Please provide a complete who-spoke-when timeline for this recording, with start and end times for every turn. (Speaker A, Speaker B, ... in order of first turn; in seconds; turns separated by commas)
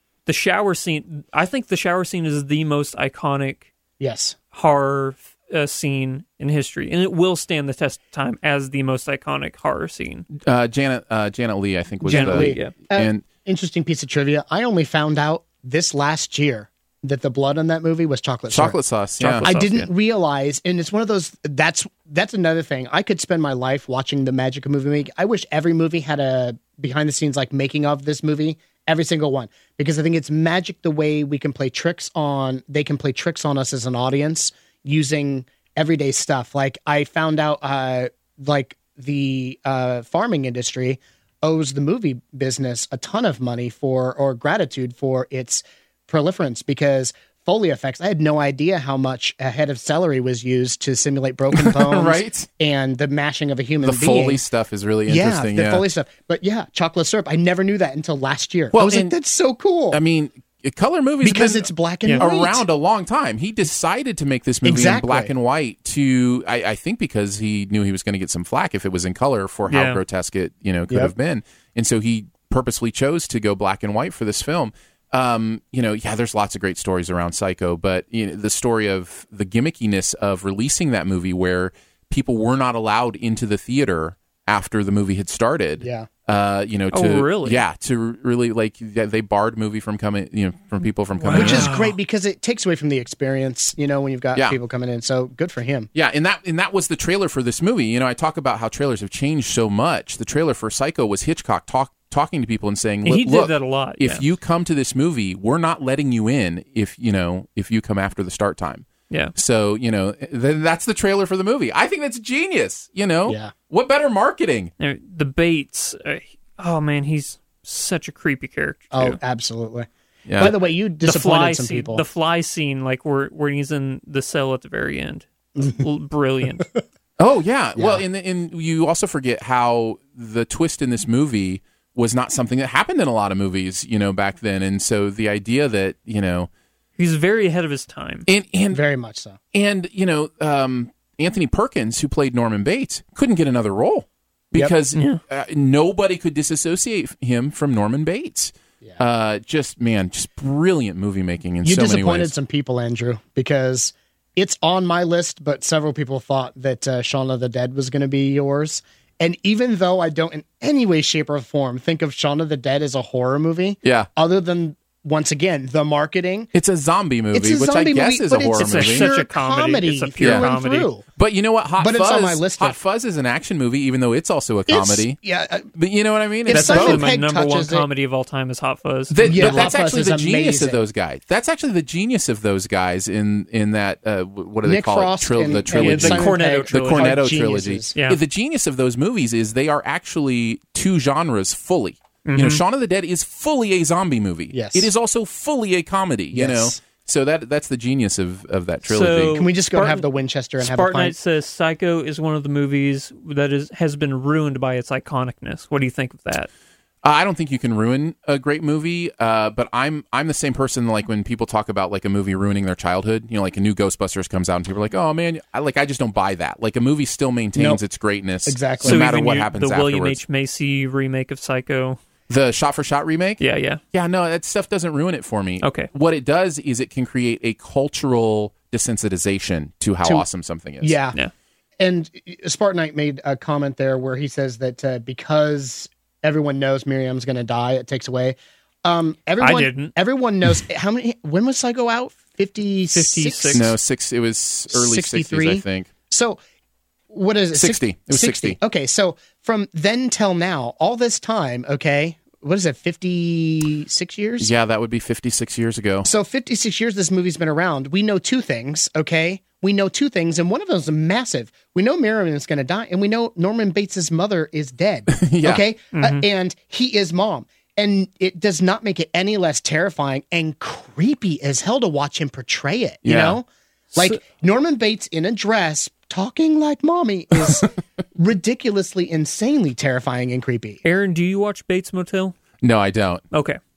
Speaker A: 0.3-3.7, Speaker B: 4.0-4.4, Speaker A: 4.5-10.3, Speaker C: 10.3-13.2, Speaker B: 12.0-18.8, Speaker A: 12.1-12.7, Speaker C: 18.5-19.5, Speaker A: 19.2-19.9, Speaker B: 19.4-54.4, Speaker C: 51.5-52.5, Speaker C: 53.8-55.9, Speaker B: 55.1-60.0, Speaker C: 58.7-59.1, Speaker C: 59.9-91.7, Speaker B: 61.2-62.6, Speaker B: 64.6-65.3, Speaker A: 69.7-70.0, Speaker B: 85.8-86.1, Speaker A: 86.9-87.6, Speaker A: 91.2-92.0, Speaker B: 91.3-95.9, Speaker C: 95.9-114.7, Speaker A: 103.0-104.2, Speaker B: 113.3-113.5, Speaker A: 114.8-119.2, Speaker B: 118.9-122.0, Speaker C: 120.3-120.5, Speaker A: 120.4-126.7, Speaker C: 127.2-136.5, Speaker B: 127.8-128.0, Speaker A: 137.0-138.3, Speaker C: 138.3-138.8, Speaker B: 138.7-139.4, Speaker C: 139.5-152.3, Speaker A: 144.9-145.2, Speaker B: 151.6-166.5, Speaker C: 163.8-164.1, Speaker C: 166.5-169.1, Speaker B: 167.3-171.1, Speaker A: 168.6-170.9, Speaker C: 170.2-170.5, Speaker C: 171.2-175.2, Speaker B: 171.8-172.8, Speaker B: 174.7-175.7, Speaker C: 175.7-177.1, Speaker B: 176.5-177.9, Speaker A: 176.5-179.7, Speaker C: 179.1-199.4, Speaker B: 179.2-180.8, Speaker B: 184.6-187.9, Speaker A: 185.7-187.2, Speaker A: 192.2-192.6, Speaker B: 194.5-194.9, Speaker B: 196.3-196.8, Speaker A: 198.8-200.1, Speaker B: 199.3-201.2, Speaker A: 200.6-206.5, Speaker C: 207.0-220.2, Speaker B: 217.6-217.8, Speaker B: 218.5-219.0, Speaker A: 218.8-222.0, Speaker C: 222.3-223.4, Speaker A: 223.4-223.8, Speaker C: 223.9-231.0, Speaker A: 225.6-225.9, Speaker B: 230.8-231.2, Speaker B: 231.8-243.7, Speaker A: 239.4-239.9, Speaker A: 242.9-243.7, Speaker C: 243.5-245.9, Speaker B: 244.7-246.4, Speaker B: 247.1-254.5, Speaker C: 247.5-248.6, Speaker C: 254.4-256.1, Speaker B: 256.1-280.8, Speaker C: 265.1-265.6, Speaker A: 265.9-266.2, Speaker C: 273.0-273.4, Speaker A: 280.8-282.4, Speaker C: 282.6-283.2, Speaker A: 283.3-283.6